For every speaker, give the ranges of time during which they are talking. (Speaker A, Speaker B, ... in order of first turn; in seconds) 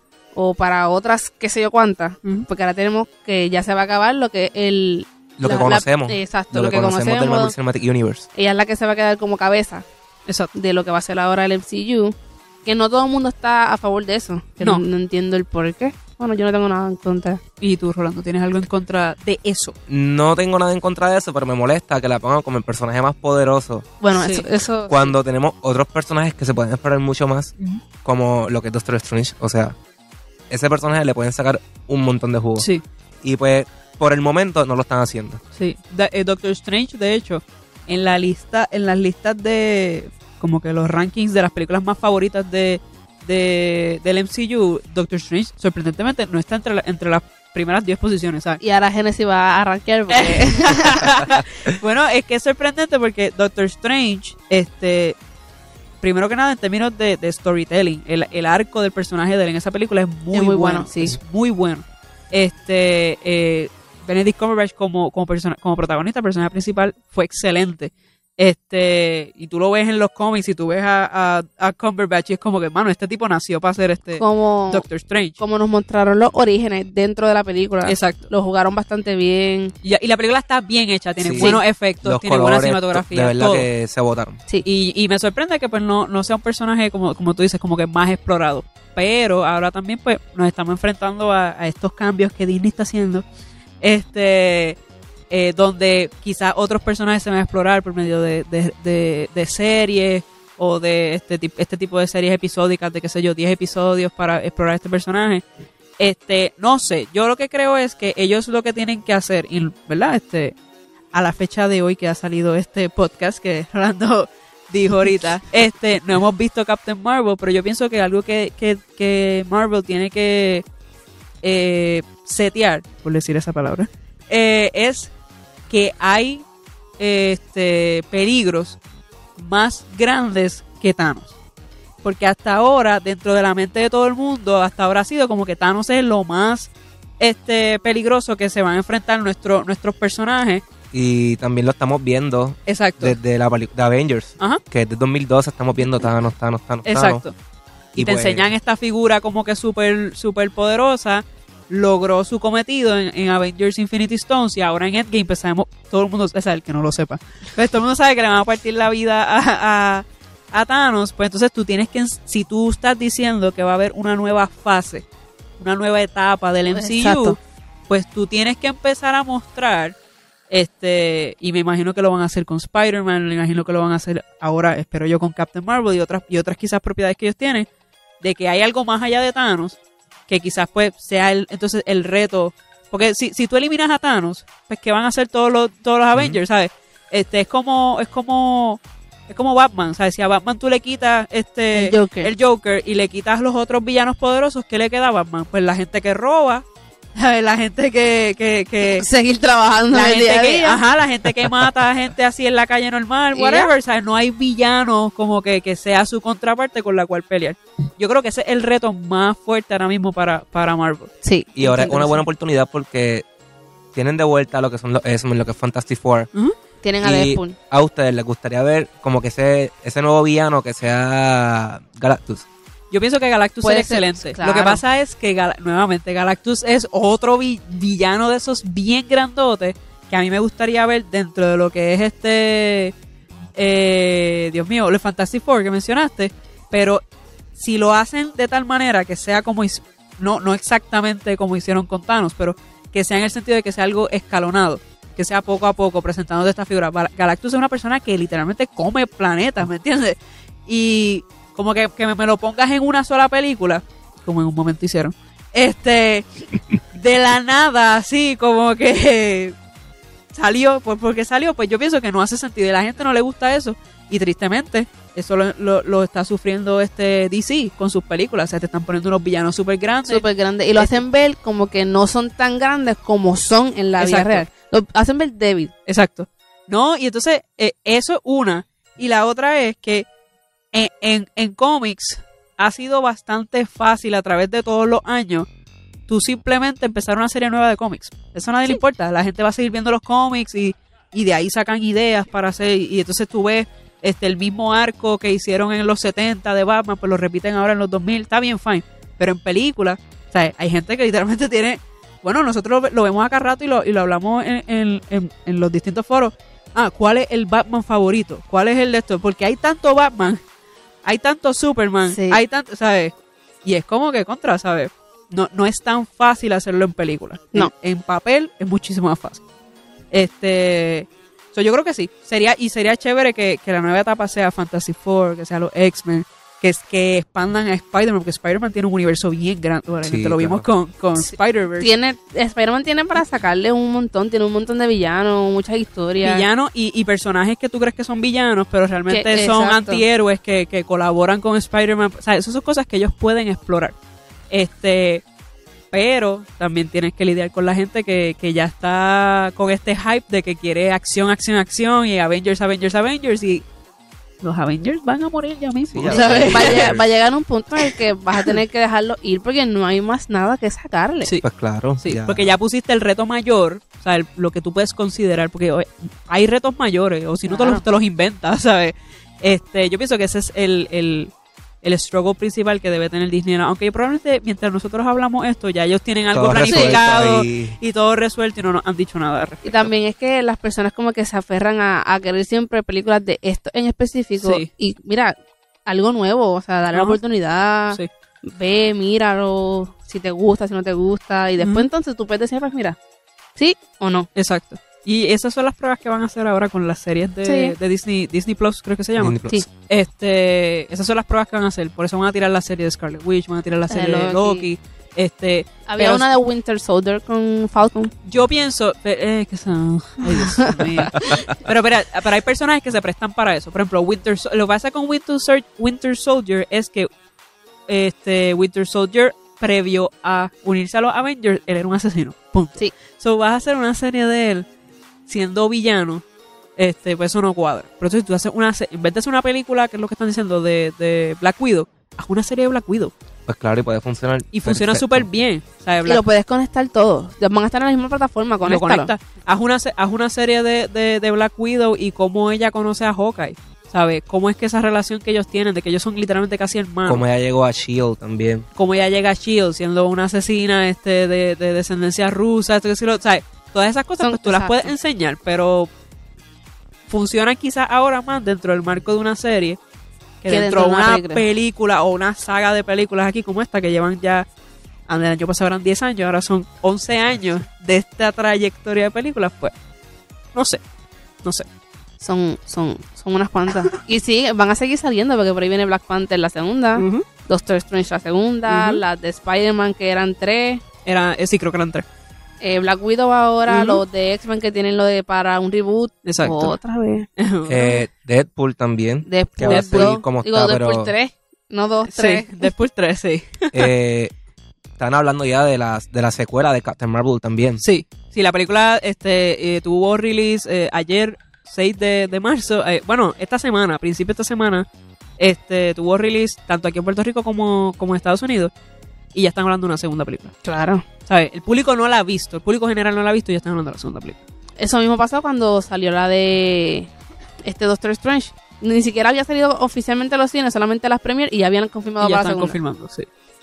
Speaker A: 0.3-7.5, 8.3-9.8, 10.5-17.4, 24.0-25.1, 48.6-51.1, 60.3-61.1, 74.2-74.8, 75.4-79.7, 81.3-81.6, 166.7-167.4, 191.7-192.3, 198.8-200.8, 203.3-203.7, 211.2-212.2, 216.8-217.6, 223.6-224.8, 270.1-275.7, 312.1-312.4, 331.2-336.4, 339.1-340.0, 356.1-361.3, 367.5-367.8, 376.7-377.0, 379.6-393.0, 393.6-394.3, 397.4-397.7, 403.9-404.7, 405.9-408.1, 410.4-411.4, 436.1-439.1, 454.2-454.9, 460.5-461.4, 472.2-480.8, 482.6-487.3, 489.2-492.7, 510.6-511.1, 514.8-517.1, 517.6-522.8
Speaker B: 5.4-8.3, 19.9-23.9, 24.9-27.5, 28.0-29.8, 30.5-32.7, 33.2-35.4, 81.2-84.4, 140.9-147.2, 147.9-148.5, 211.6-213.2, 213.9-216.3, 217.0-222.4, 330.0-330.7, 355.9-357.1, 361.4-362.5, 376.3-377.8, 399.2-399.7, 433.5-435.3, 447.1-448.7, 487.7-491.1, 493.7-494.3, 495.0-497.8
Speaker C: 17.6-19.8, 24.1-24.5, 32.6-32.8, 35.5-48.6, 50.1-55.1, 56.0-75.4, 77.8-78.3, 79.8-83.7, 84.6-93.2, 93.8-94.8, 95.3-105.4, 106.0-110.5, 111.1-120.6, 121.4-125.1, 125.7-126.5, 127.0-128.8, 129.4-131.3, 132.0-136.7, 137.2-140.6, 142.7-143.2, 146.8-147.3, 147.9-165.0, 165.6-167.4, 167.9-169.9, 170.5-177.7, 178.2-179.8, 180.3-199.1, 199.9-211.1, 222.9-232.9, 233.6-237.0, 237.6-250.2, 250.7-259.6, 260.3-270.2, 270.8-271.0, 274.0-274.4, 275.9-280.1, 280.7-285.5, 286.1-310.4, 311.1-313.1, 313.6-319.4, 320.1-331.9, 336.2-343.9, 344.5-345.2, 345.9-353.6, 354.4-356.9, 362.0-371.3, 371.8-379.9, 384.4-384.7, 386.9-387.2, 391.6-391.9, 394.4-406.3, 408.2-417.1, 417.9-424.6, 425.3-426.2, 426.8-433.1, 434.5-436.2, 438.6-447.2, 448.8-455.9, 457.1-459.8, 460.4-464.5, 465.1-469.7, 470.6-470.8, 476.9-477.2, 478.7-479.0, 481.1-482.1, 483.7-484.0, 486.2-486.8, 487.4-488.0, 489.7-490.2, 492.1-493.9, 497.8-504.9, 505.4-508.7, 509.3-510.5, 511.3-514.4, 522.2-523.3